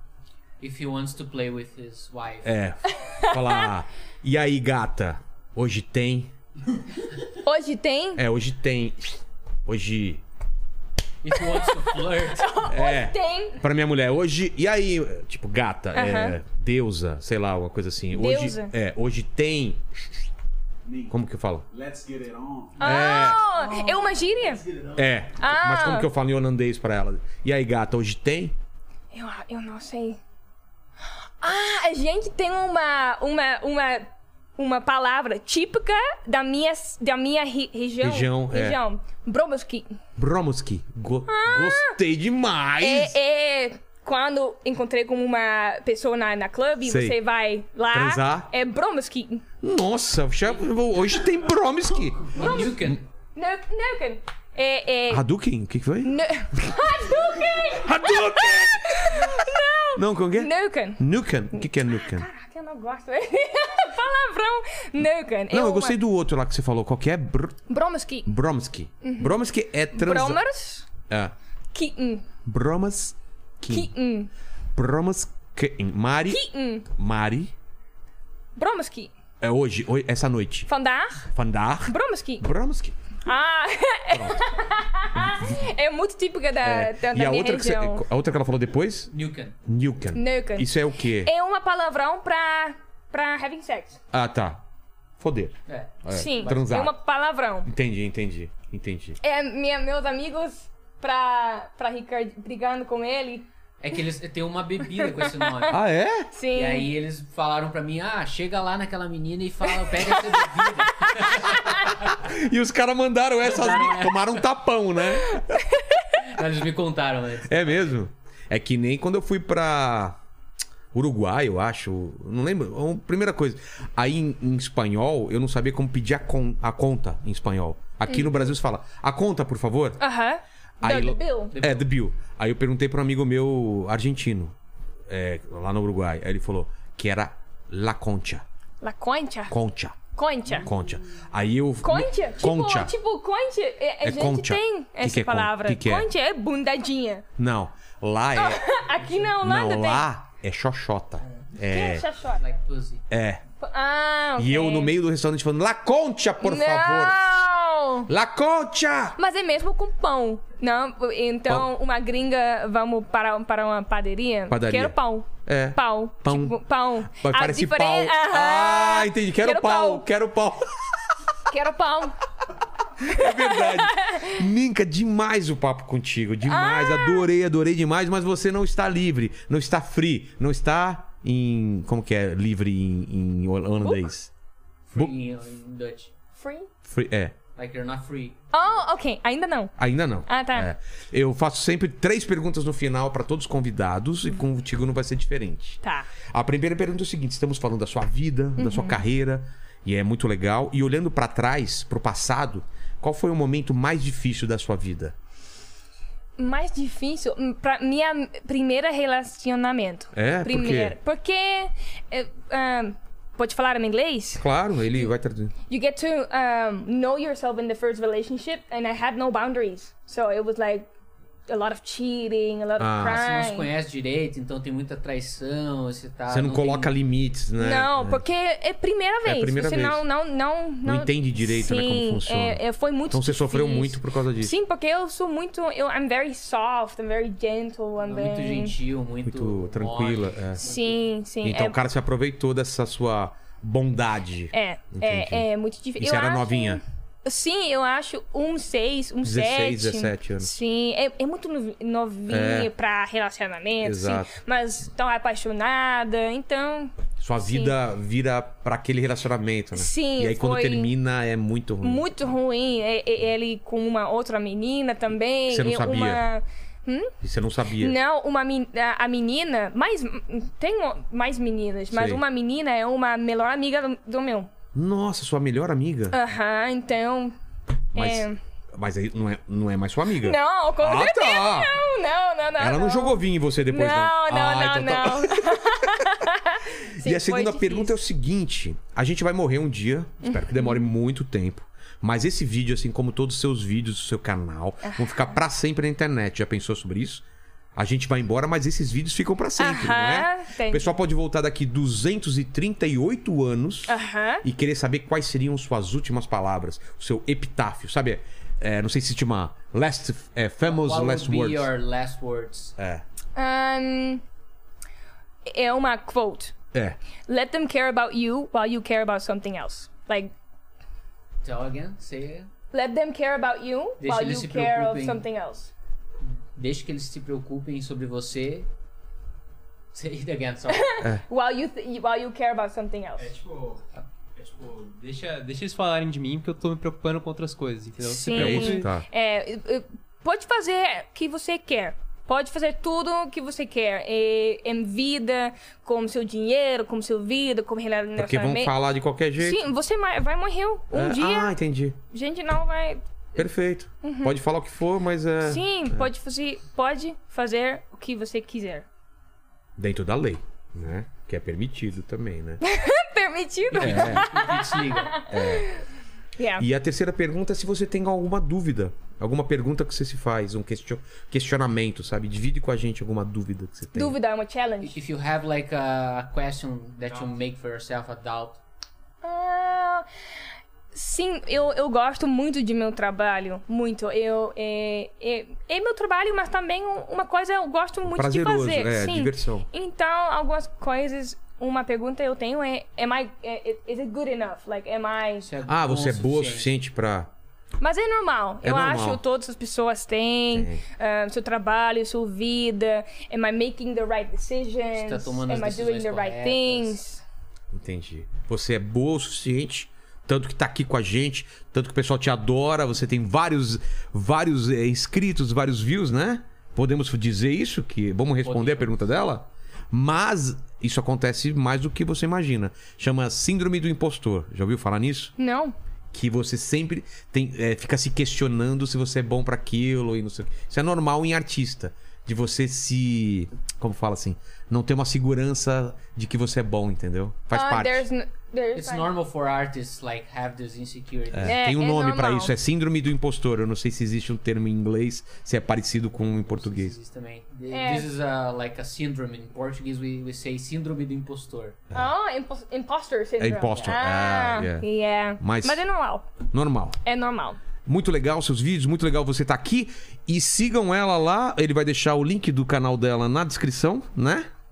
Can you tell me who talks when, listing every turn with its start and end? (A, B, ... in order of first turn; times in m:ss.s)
0:00.6-0:02.5 A
0:02.4-0:06.3 B
0:02.9-0:03.7 C
0:07.4-0:08.2 C
0:08.2-0:10.2 B
0:11.2-0:12.5 A
0:11.3-0:13.6 C
0:12.7-0:19.8 B
0:15.9-0:16.4 C
0:18.1-0:18.7 C
0:20.8-0:21.1 D
0:21.1-0:21.6 B
0:21.7-0:25.0 D
0:22.8-0:24.6 C
0:22.8-0:23.4 B
0:25.0-0:28.5 B
0:25.4-0:26.1 C
0:29.1-0:30.2 C
0:31.4-0:39.9 C
0:38.0-0:38.8 B
0:40.2-0:43.1 B
0:41.3-0:42.0 C
0:42.8-0:49.4 C
0:46.8-0:47.2 B
0:47.9-0:48.5 B
0:49.6-0:53.0 B
0:52.3-0:55.2 C
0:52.4-0:53.0 A
0:55.1-0:56.7 B
0:56.0-1:06.0 C
0:57.8-0:59.3 B
1:00.0-1:02.3 B
1:05.5-1:07.6 B
1:07.7-1:08.3 C
1:08.3-1:10.4 B
1:09.0-1:09.4 C
1:09.9-1:10.9 C
1:11.1-1:11.3 B
1:11.7-1:12.2 C
1:12.4-1:13.9 B
1:13.7-1:14.3 C
1:14.7-1:17.5 B
1:16.3-1:16.8 C
1:18.6-1:19.1 C
1:19.4-1:20.7 B
1:20.7-1:21.3 C
1:21.3-1:23.0 B
1:21.9-1:22.4 C
1:23.2-1:28.0 C
1:24.1-1:24.4 B
1:25.2-1:25.6 B
1:26.6-1:29.1 B
1:29.1-1:29.6 A
1:29.6-1:31.3 B
1:30.1-1:34.0 C
1:34.1-1:34.6 B
1:35.2-1:37.0 B
1:35.7-1:36.6 A
1:36.1-1:37.7 C
1:37.6-1:39.2 B
1:39.2-1:43.4 C
1:43.8-1:45.8 A
1:45.0-1:45.7 C
1:45.7-1:46.3 B
1:46.3-1:46.9 C
1:46.5-1:52.2 A
1:51.0-1:51.8 C
1:52.1-1:55.6 B
1:53.4-1:54.5 A
1:55.2-1:56.2 C
1:56.2-1:57.9 A
1:57.5-2:00.2 B
2:00.9-2:10.0 B
2:10.0-2:11.6 C
2:10.8-2:14.5 B
2:11.5-2:11.9 A
2:15.1-2:18.4 B
2:18.8-2:19.6 C
2:19.5-2:20.0 B
2:20.1-2:20.7 C
2:20.5-2:22.9 B
2:21.8-2:27.2 C
2:24.0-2:26.1 B
2:27.4-2:28.6 B
2:28.3-2:30.0 C
2:29.4-2:32.0 B
2:31.7-2:32.4 C
2:32.4-2:33.0 A
2:33.1-2:33.4 B
2:33.6-2:34.9 C
2:34.4-2:37.3 B
2:36.4-2:38.1 C
2:38.1-2:39.2 B
2:39.2-2:50.0 C
2:44.5-2:50.7 B
2:51.5-2:52.2 C
2:53.0-2:54.4 C
2:53.0-3:04.3 B
2:56.4-2:57.3 C
3:04.9-3:06.1 A
3:06.4-3:06.7 C
3:06.8-3:07.3 B
3:07.6-3:08.7 A
3:08.5-3:09.7 C
3:09.8-3:25.1 B
3:10.2-3:10.7 C
3:15.8-3:16.1 C
3:18.6-3:19.0 C
3:26.4-3:34.4 C
3:30.1-3:31.0 B
3:34.4-3:35.5 B
3:35.7-3:40.9 C
3:41.5-3:43.7 C
3:42.8-3:43.2 B
3:43.0-3:46.9 A
3:46.3-3:48.2 B
3:47.6-3:58.7 C
3:49.2-3:50.0 B
3:50.8-3:54.5 B
3:58.0-4:00.8 A
3:59.2-4:00.7 B
4:00.6-4:01.8 C
4:01.4-4:05.4 B
4:04.5-4:17.7 C
4:06.0-4:06.8 B
4:09.2-4:10.5 B
4:12.3-4:12.7 B
4:13.8-4:14.3 B
4:17.2-4:22.0 B
4:19.7-4:20.9 C
4:21.8-4:27.1 C
4:25.5-4:26.2 B
4:27.2-4:28.0 B
4:27.8-4:34.5 C
4:31.9-4:32.2 B
4:34.7-4:36.2 B
4:36.1-4:37.3 C
4:37.9-4:38.4 C
4:38.0-4:41.8 B
4:40.2-4:48.0 C
4:42.6-4:45.7 B
4:47.0-4:57.2 B
4:50.2-4:50.9 C
4:54.8-4:55.3 C
4:57.8-5:11.7 B
4:59.6-5:00.8 C
5:03.9-5:04.4 C
5:10.6-5:12.8 A
5:12.8-5:13.0 B
5:13.4-5:14.2 C
5:15.4-5:16.5 C
5:17.3-5:20.3 C
5:21.4-5:22.5 A
5:22.7-5:25.7 C
5:24.0-5:25.2 A
5:26.2-5:28.7 A
5:29.9-5:31.0 A
5:30.7-5:33.3 C
5:33.2-5:33.8 D
5:34.4-5:34.9 D
5:34.4-5:38.9 E
5:38.0-5:48.8 C
5:38.3-5:39.0 B
5:48.2-5:49.6 B
5:49.4-5:51.5 C
5:50.9-5:52.0 B
5:52.1-5:53.5 C
5:53.4-5:56.0 B
5:54.0-5:54.4 C
5:55.4-5:58.8 C
5:59.8-6:02.6 B
6:02.6-6:05.8 C
6:03.7-6:05.2 A
6:03.8-6:04.3 B
6:05.3-6:05.7 B
6:06.4-6:06.6 C
6:06.6-6:14.2 B
6:13.9-6:15.0 C
6:14.8-6:18.6 A
6:19.2-6:20.1 C
6:20.9-6:35.5 C
6:28.0-6:29.7 B
6:35.4-6:36.7 A
6:35.7-6:37.3 B
6:37.8-6:47.2 C
6:38.6-6:39.2 B
6:40.5-6:40.8 B
6:44.9-6:47.0 A
6:47.7-7:05.3 B
6:58.4-6:59.1 A
7:05.4-7:05.7 C
7:06.1-7:18.0 B
7:17.5-7:19.1 C
7:18.8-7:21.6 A
7:21.3-7:27.0 B
7:21.4-7:22.5 C
7:26.4-7:31.8 A
7:27.7-7:28.1 C
7:31.9-7:36.3 C
7:33.4-7:34.8 B
7:35.4-7:35.8 B
7:36.4-7:37.0 B
7:37.0-7:37.6 C
7:37.8-7:44.5 B